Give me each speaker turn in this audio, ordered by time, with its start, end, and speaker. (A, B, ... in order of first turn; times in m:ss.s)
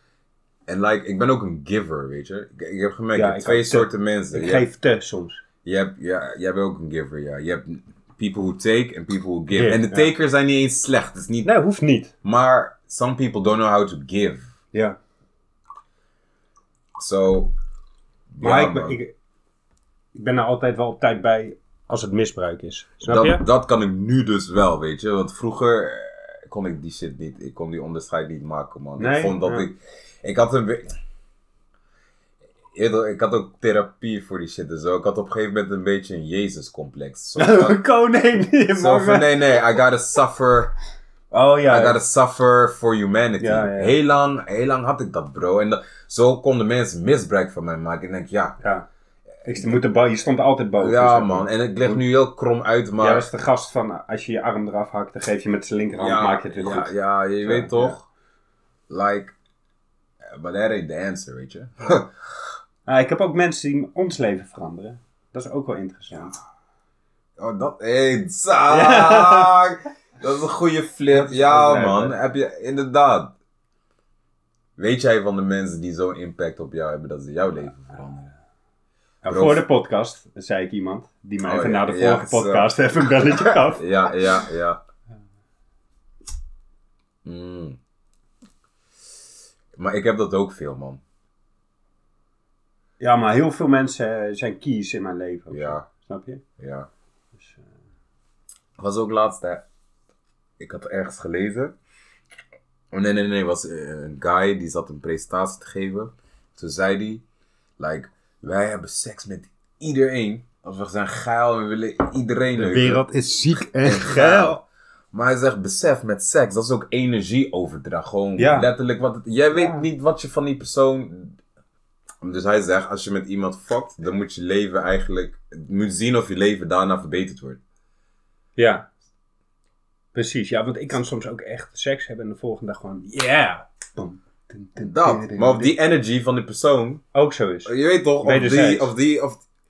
0:00.7-0:04.7 A
0:03.1-0:05.4 B
0:05.6-0:11.5 A
0:09.5-0:10.1 B
0:11.4-0:12.1 B
0:12.2-0:14.5 A
0:14.7-0:15.0 B
0:17.0-0:17.5 A
0:18.3-0:19.0 A
0:18.4-0:19.1 B
0:20.1-0:23.4 B
0:23.0-0:30.9 A
0:29.0-0:29.7 B
0:32.7-0:37.8 A
0:37.4-0:39.4 B
0:38.7-0:40.7 A
0:41.3-0:42.0 B
0:41.6-0:48.6 A
0:43.4-0:44.0 B
0:48.6-0:48.9 B
0:49.4-0:52.0 B
0:50.8-0:53.3 A
0:53.0-0:58.0 B
0:56.0-0:58.0 A
0:58.9-0:59.3 A
1:00.3-1:02.1 A
1:02.8-1:06.4 B
1:07.4-1:13.3 A
1:08.7-1:09.6 B
1:11.1-1:12.2 B
1:14.8-1:18.3 A
1:19.2-1:23.9 B
1:19.3-1:19.6 A
1:21.4-1:22.7 A
1:23.2-1:24.8 A
1:27.2-1:27.8 A
1:29.8-1:31.0 A
1:33.0-1:36.4 B
1:35.5-1:35.8 A
1:36.6-1:36.9 A
1:37.4-1:37.6 B
1:38.8-1:39.6 A
1:40.6-1:41.7 A
1:42.9-1:47.2 A
1:47.8-1:53.1 A
1:52.6-1:54.6 B
1:53.8-1:54.6 A
1:55.1-2:01.4 A
1:58.4-1:58.7 B
1:59.5-1:59.8 B
2:02.2-2:07.6 A
2:08.6-2:08.9 B
2:10.1-2:15.7 B
2:14.8-2:17.0 A
2:17.1-2:18.9 B
2:17.6-2:19.4 A